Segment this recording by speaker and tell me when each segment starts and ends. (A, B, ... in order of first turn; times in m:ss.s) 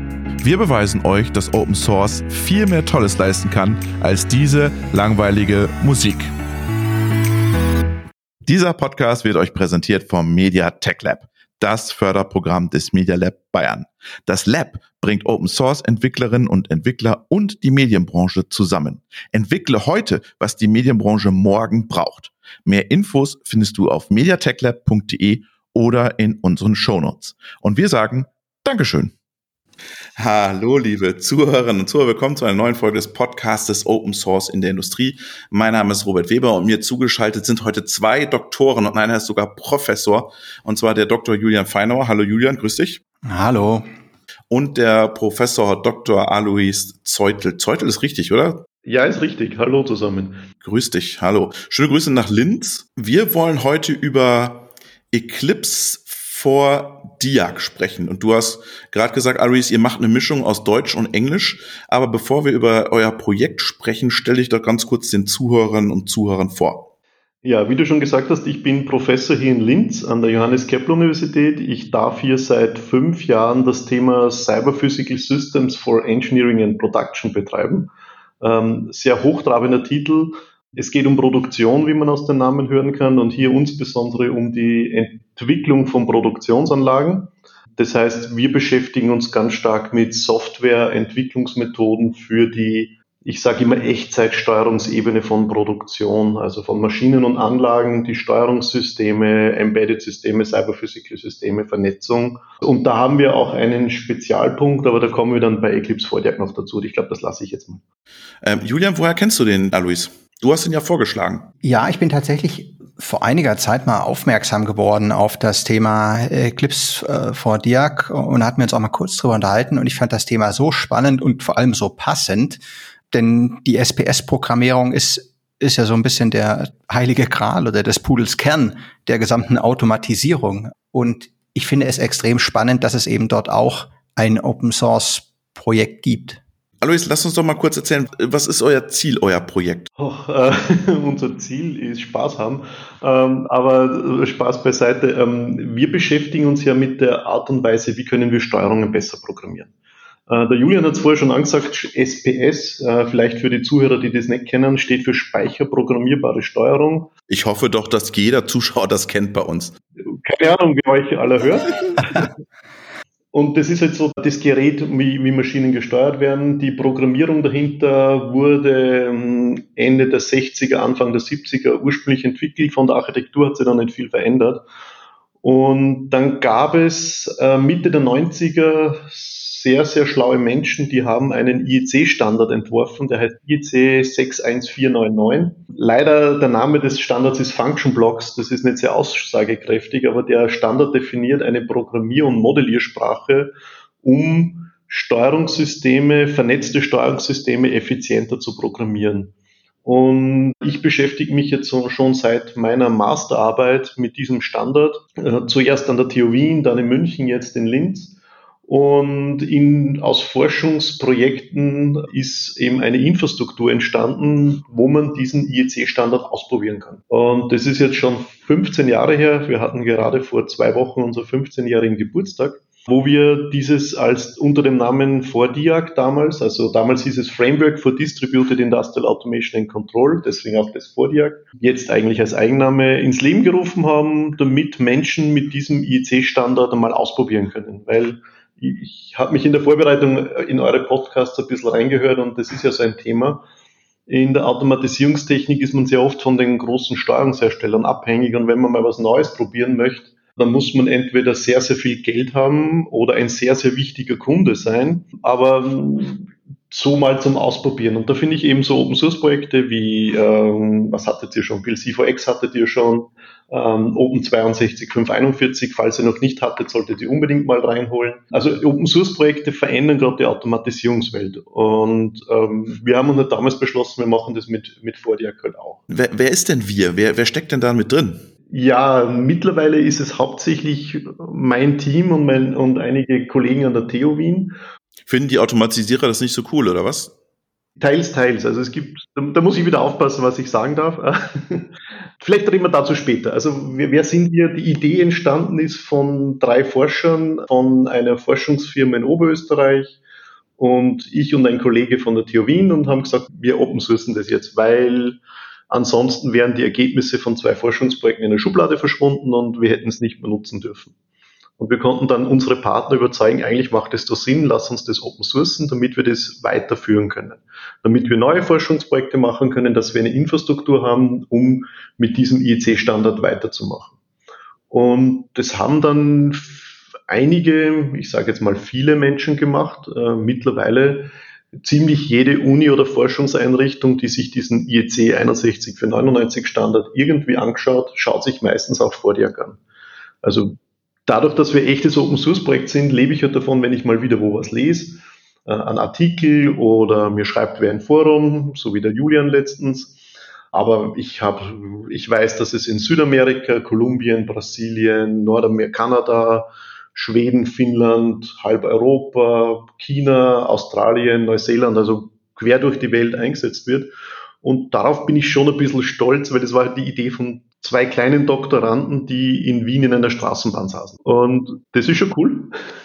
0:00.4-0:06.3 A
0:08.4-0:29.1 A
0:30.2-0:43.0 A
0:43.2-0:43.8 B
0:44.5-0:48.6 A
0:48.8-0:50.4 C
0:50.6-1:06.9 A
1:07.4-1:47.8 C
1:48.4-1:51.5 A
1:51.6-2:16.4 B
2:16.8-2:19.9 A
2:20.0-2:29.7 C
2:30.3-2:37.1 C
2:37.3-2:39.8 A
2:40.0-2:42.3 C
2:43.3-2:54.6 C
2:55.4-3:19.3 C
3:19.8-4:03.4 C
4:04.1-4:35.8 C
4:35.9-4:38.2 A
4:38.5-4:44.5 C
4:45.0-4:47.1 A
4:47.8-4:51.7 C
4:52.2-5:00.0 C
5:00.6-5:05.2 C
5:05.7-5:10.9 C
5:11.6-5:23.9 C
5:24.7-5:39.6 C
5:40.2-5:50.0 C
5:50.5-6:12.5 C